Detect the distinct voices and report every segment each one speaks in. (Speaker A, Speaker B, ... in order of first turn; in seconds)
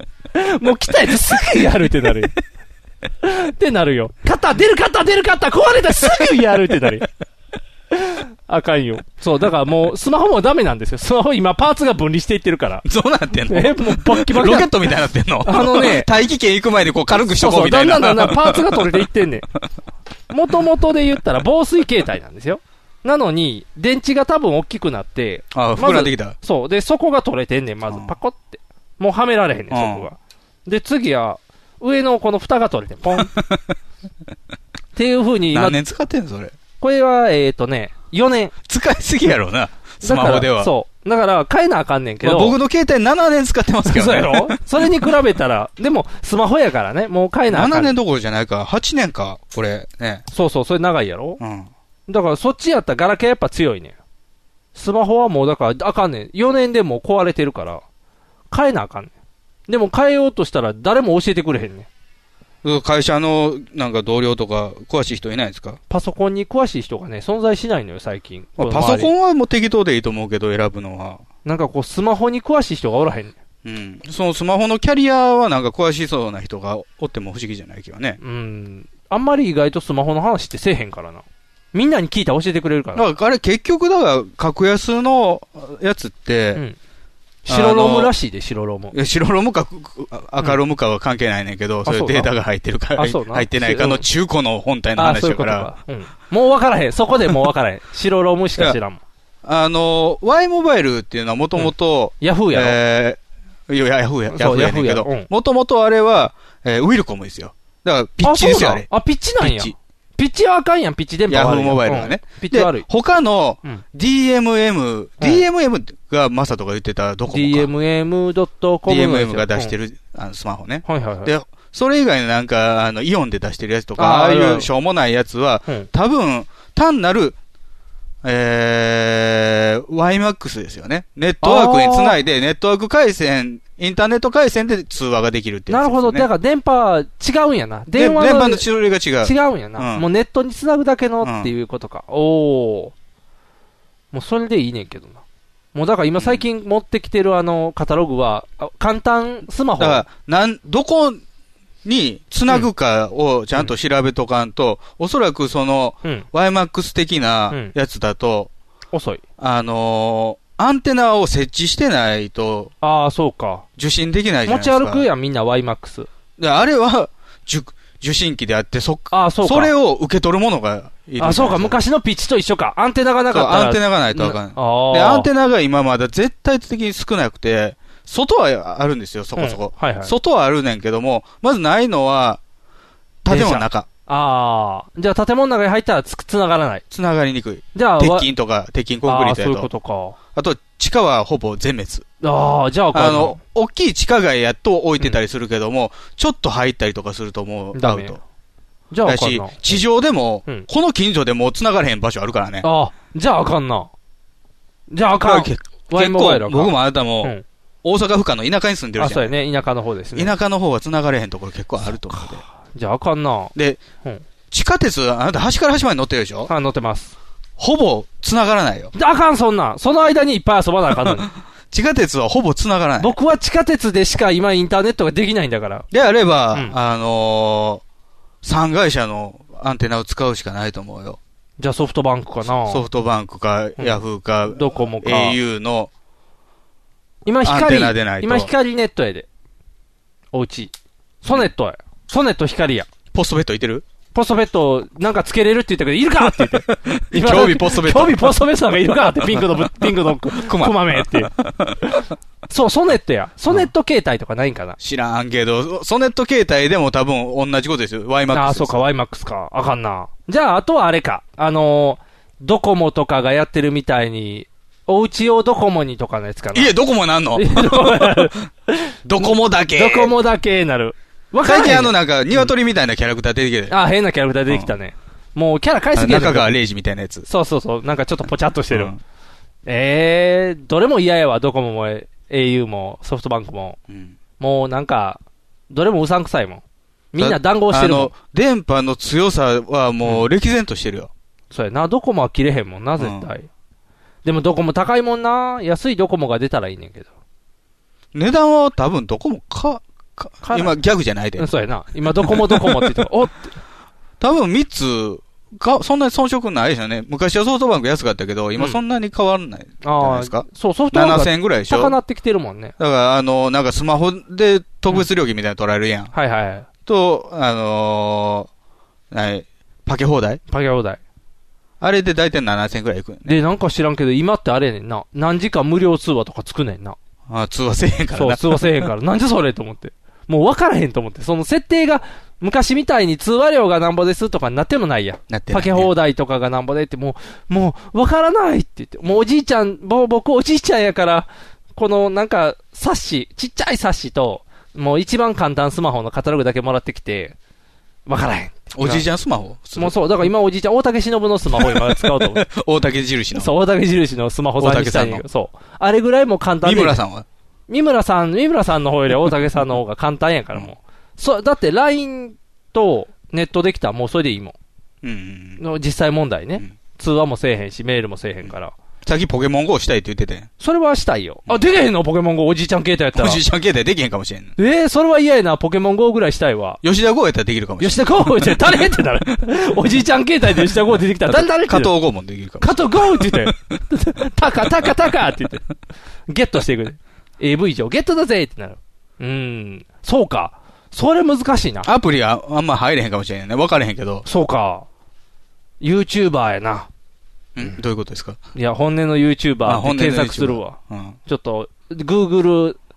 Speaker A: 0.3-2.3, 3.2-7.1, 7.9-12.8, 13.5-14.7, 15.4-16.1, 17.4-19.5, 20.3-33.3, 35.0-35.8, 36.8-38.5, 40.0-42.6, 43.9-47.9, 50.3-51.4, 52.1-54.0, 54.8-57.8, 58.5-59.1, 59.7-61.9, 65.9-69.1, 71.5-73.3, 78.2-83.1, 87.5-89.0, 91.8-92.3, 93.0-94.0, 95.0-99.0, 101.6-102.8, 104.3-105.3, 108.2-112.9, 117.3-119.7, 120.9-121.3, 124.0-124.7, 131.4-132.2, 135.7-138.7, 139.2-142.9, 144.1-145.2, 145.7-150.1, 158.9-159.2, 162.8-163.7, 164.5-166.1, 169.1-169.7, 171.2-175.3, 179.4-180.1, 183.3-186.8, 187.8-188.3, 189.1-190.2, 192.2-193.4, 197.8-198.2, 198.9-199.8, 202.6-203.9, 204.9-207.4, 209.0-210.3, 211.9-213.5, 216.5-217.1, 218.9-221.3, 223.0-225.9, 231.6-232.8, 233.8-235.4, 237.2-239.3, 240.3-242.9, 244.1-251.3, 252.5-254.8, 258.3-266.8, 267.3-268.9, 269.7-272.5, 273.7-276.5, 277.3-278.9, 279.7-283.8, 284.4-286.6, 287.1-288.1, 291.5-293.5, 294.2-297.1, 300.4-300.8, 301.4-303.5, 309.8-312.8, 316.1-316.7, 320.5-321.0, 323.2-327.0, 328.1-347.4, 348.1-349.1, 349.8-352.5, 353.4-357.0, 357.7-364.6, 365.6-368.7, 370.6-373.4, 374.6-376.8, 377.8-381.9, 382.6-385.7, 386.3-391.9, 394.2-394.9, 395.8-396.9, 398.6-402.8
Speaker B: 12.8-19.0, 25.5-26.4, 29.7-30.1, 33.1-33.7, 35.5-36.5, 38.7-40.7, 42.2-44.9, 47.5-50.2, 51.4-51.7, 62.6-65.8, 68.6-71.2, 73.6-78.2, 83.0-86.6, 87.5-88.2, 88.9-95.7, 99.4-108.9, 109.4-109.8, 111.3-117.7, 118.9-127.4, 128.2-136.3, 137.9-140.1, 141.2-141.5, 146.2-146.4, 149.8-151.2, 151.8-158.5, 159.4-162.7, 163.8-165.1, 166.4-171.8, 173.3-182.4, 183.2-183.9, 186.9-189.7, 190.3-192.1, 192.9-198.2, 199.1-202.7, 205.2-209.3, 210.1-212.4, 213.6-213.8, 214.5-216.5, 217.6-218.9, 221.0-223.1, 225.9-227.8, 228.4-231.2, 232.6-235.9, 237.4-238.5, 243.1-243.8, 246.2-248.4, 249.3-251.8, 254.8-258.9, 266.5-268.4, 269.1-270.2, 271.4-273.8, 275.9-277.3, 278.7-279.0, 283.9-284.1, 287.2-291.1, 293.0-293.3, 298.1-301.5, 302.2-303.0, 304.2-312.0, 312.8-316.1, 316.9-318.5, 319.1-320.4, 321.8-323.4, 327.3-328.8, 335.3-335.9, 348.7-350.1, 351.6-353.5, 354.6-355.2, 356.6-357.3, 365.0-365.6, 369.1-370.5, 373.1-374.6, 376.8-378.7, 381.3-383.8, 391.8-394.2, 397.6-398.4, 399.6-401.2